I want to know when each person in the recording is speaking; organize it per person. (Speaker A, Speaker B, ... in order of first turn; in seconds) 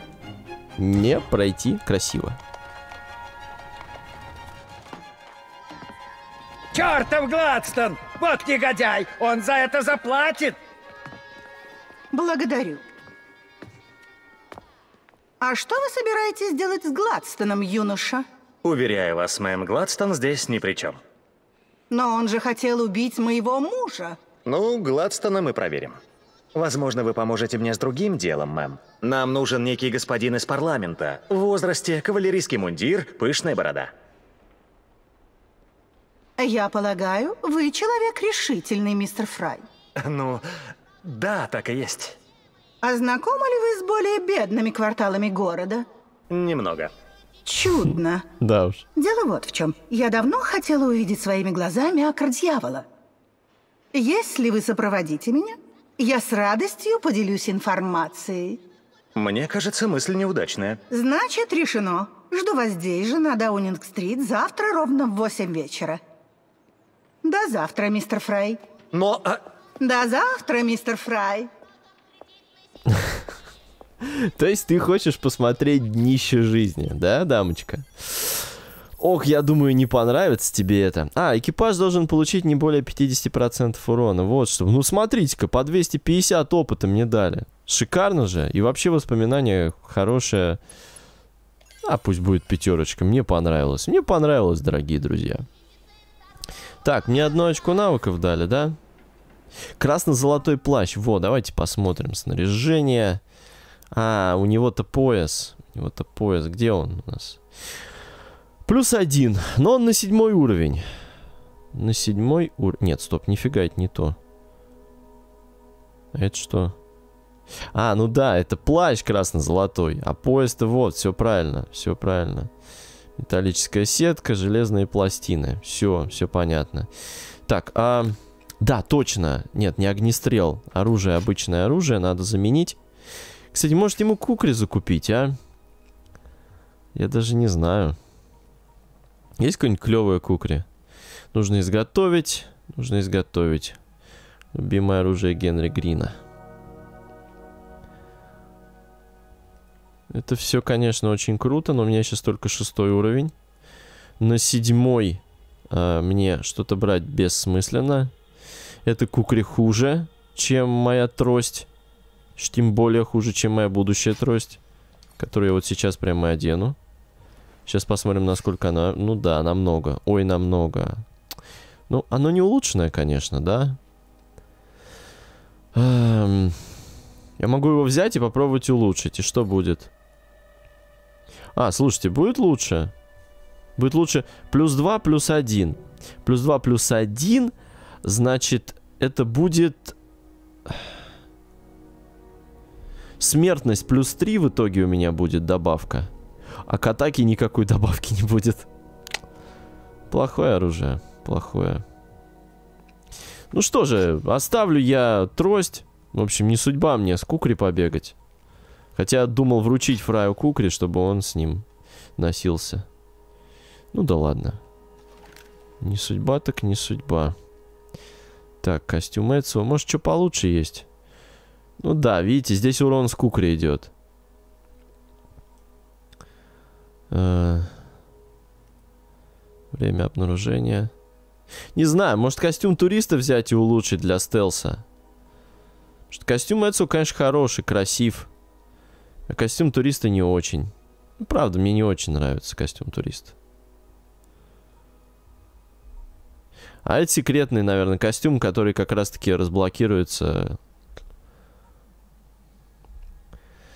Speaker A: 0.8-2.4, 47.8-48.8, 72.9-73.2, 74.0-90.6, 91.8-95.4, 96.8-98.8, 99.8-103.2, 103.9-107.4, 108.7-110.8, 111.7-114.2, 116.1-116.8, 117.7-122.5, 123.2-126.9, 127.5-132.8, 133.5-135.3, 136.9-137.9, 139.4-140.7, 141.3-143.8, 144.5-146.2, 150.1-153.3, 154.2-158.1, 158.8-161.7, 162.3-164.6, 165.2-166.8, 167.7-171.1, 171.9-173.8, 175.7-176.7, 177.4-179.9, 181.5-182.9, 183.8-189.9, 193.2-196.1, 196.7-198.7, 200.1-201.8, 203.5-208.1, 208.9-211.6, 212.2-212.8, 213.9-214.6, 215.8-217.3, 218.6-220.8, 221.8-223.9, 227.1-227.8, 229.7-230.9, 231.7-234.8, 236.1-238.3, 239.3-243.3, 246.8-250.6
Speaker B: 6.7-10.6
Speaker C: 12.1-12.8, 15.4-18.2, 21.9-24.2, 36.4-39.6, 42.8-45.9, 47.5-48.2, 48.9-52.9, 53.9-58.6, 60.9-66.0, 67.2-68.6, 69.8-71.5
Speaker D: 18.6-21.0, 24.4-26.0, 26.5-33.9, 40.0-40.4, 41.0-42.1, 46.3-46.9, 59.1-60.8, 68.9-69.4